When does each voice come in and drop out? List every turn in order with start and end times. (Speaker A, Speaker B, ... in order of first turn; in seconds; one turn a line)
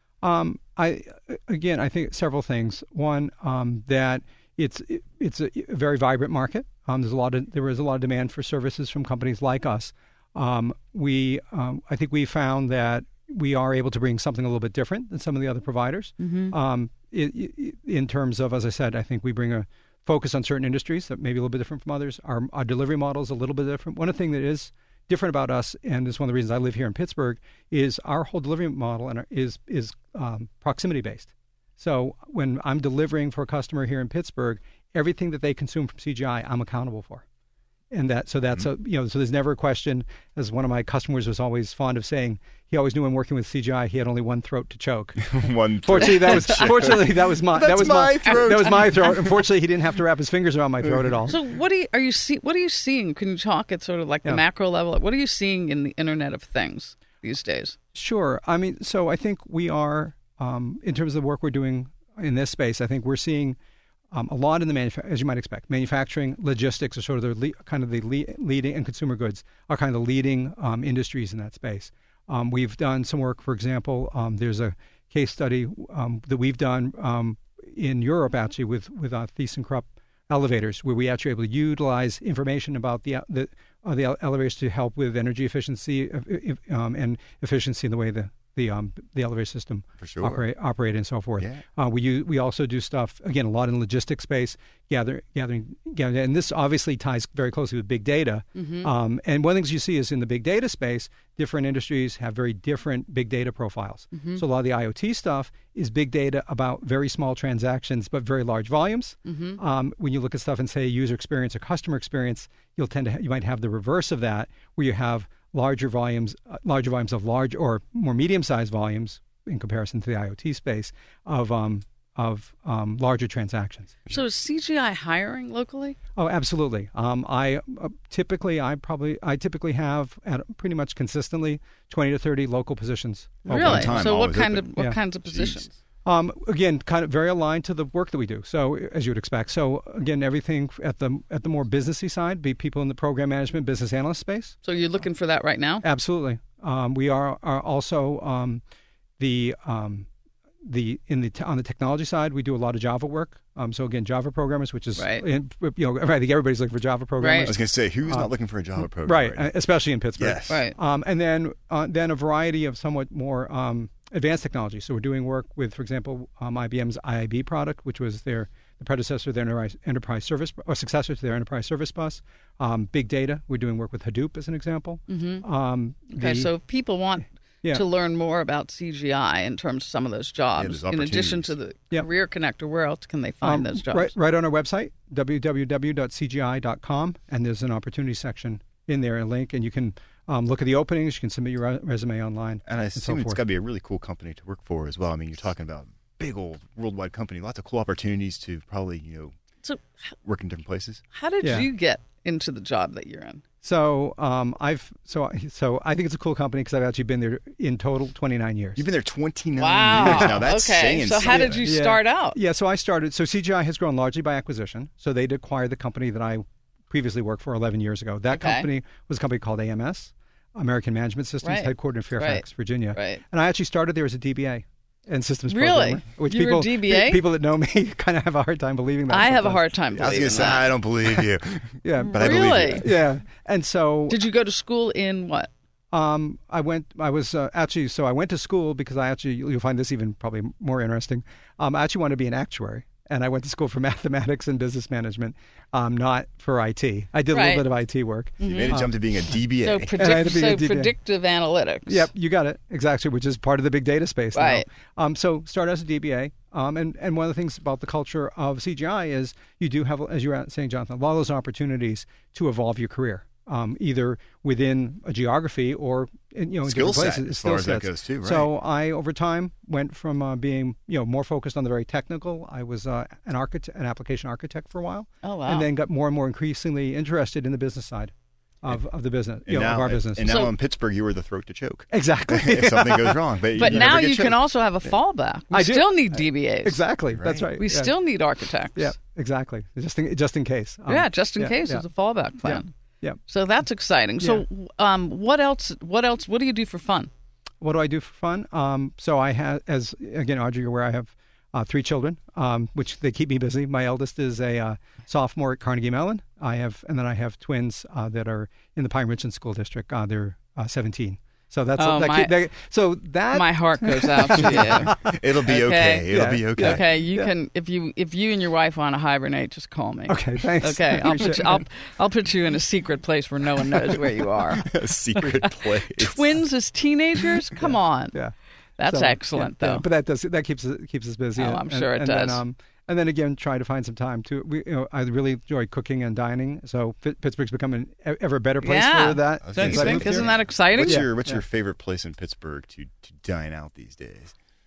Speaker A: 0.2-37.2
Speaker B: 16.2-16.5
Speaker A: 37.9-51.4
Speaker C: 45.2-49.3
Speaker B: 48.2-48.9
Speaker B: 51.3-57.8
Speaker A: 57.9-63.6
Speaker A: 64.1-124.0
Speaker C: 90.0-90.4
Speaker C: 91.4-91.6
Speaker B: 98.5-98.9
Speaker B: 104.1-104.4
Speaker B: 109.2-109.6
Speaker B: 124.1-126.0
Speaker A: 126.2-134.1
Speaker B: 133.4-135.8
Speaker C: 133.6-135.7
Speaker A: 136.0-144.6
Speaker B: 144.6-145.8
Speaker A: 145.8-148.6
Speaker A: 149.2-150.1
Speaker A: 150.6-176.5
Speaker B: 155.0-155.2
Speaker B: 157.2-157.5
Speaker C: 157.4-160.6
Speaker B: 160.5-160.8
Speaker B: 175.1-175.4
Speaker B: 176.1-184.1
Speaker C: 180.6-181.6
Speaker A: 183.4-193.4
Speaker C: 192.7-199.3
Speaker C: 200.2-201.0
Speaker B: 201.1-203.4
Speaker A: 201.4-201.7
Speaker A: 203.6-208.9
Speaker C: 208.8-211.7
Speaker B: 209.6-212.4
Speaker A: 210.0-210.4
Speaker A: 211.2-229.7
Speaker B: 218.3-218.7
Speaker B: 221.4-223.2
Speaker B: 225.5-227.2
Speaker B: 229.1-230.7
Speaker C: 229.9-233.0
Speaker A: 231.0-231.2
Speaker A: 231.8-234.2
Speaker B: 231.9-232.9
Speaker B: 234.1-235.5
Speaker A: 235.9-249.4
Speaker B: 247.3-247.7
Speaker C: 248.4-250.3
Speaker B: 248.4-248.8
Speaker B: 249.6-252.1
Speaker A: 250.0-251.0
Speaker A: 251.9-280.3
Speaker B: 254.3-254.7
Speaker C: 266.6-268.5
Speaker B: 275.2-275.7
Speaker C: 279.4-284.9
Speaker B: 280.2-280.6
Speaker A: 281.9-284.1
Speaker B: 283.6-286.8
Speaker A: 285.5-288.0
Speaker C: 287.1-287.6
Speaker B: 287.6-288.9
Speaker A: 288.7-293.2
Speaker B: 290.9-292.7
Speaker B: 293.3-297.1
Speaker A: 294.2-294.4
Speaker A: 297.6-317.3
Speaker B: 311.8-312.4
Speaker B: 313.3-328.2
Speaker C: 314.4-316.9
Speaker A: 320.1-321.6
Speaker C: 324.5-326.4
Speaker A: 327.6-340.3
Speaker B: 328.8-329.9
Speaker B: 331.4-332.4
Speaker B: 338.6-341.1
Speaker C: 339.4-344.3
Speaker A: 340.8-341.4